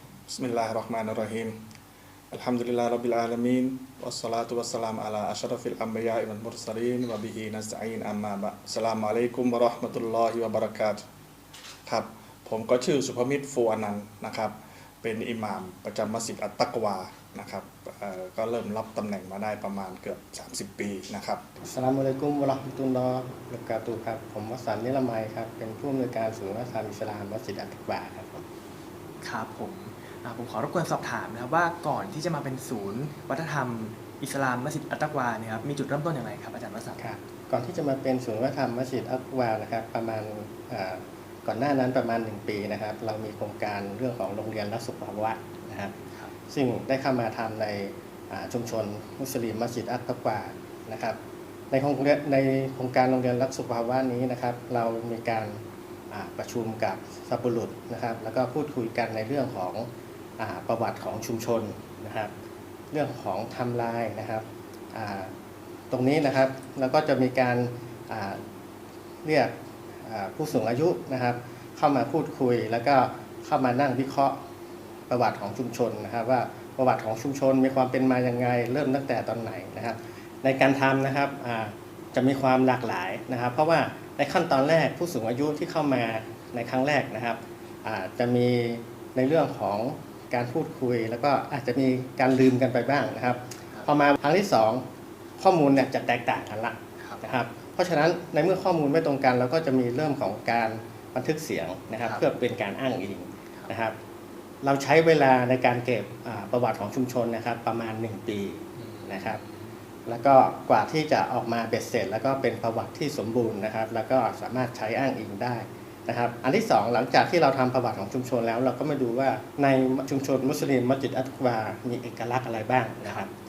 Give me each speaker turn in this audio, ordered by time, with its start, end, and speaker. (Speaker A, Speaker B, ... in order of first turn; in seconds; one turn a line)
Speaker A: 0.3-1.6
Speaker A: 2.3-11.0
Speaker A: 11.9-21.4
Speaker B: 21.6-28.4
Speaker C: 29.2-37.0
Speaker B: 37.0-45.9
Speaker B: 46.5-51.2
Speaker B: 51.7-62.3
Speaker B: 62.9-65.3
Speaker B: 65.9-68.4
Speaker B: 69.2-69.5
Speaker B: 70.0-74.4
Speaker B: 75.1-94.8
Speaker B: 95.4-104.0
Speaker B: 104.6-109.4
Speaker C: 108.8-109.7
Speaker B: 110.1-123.3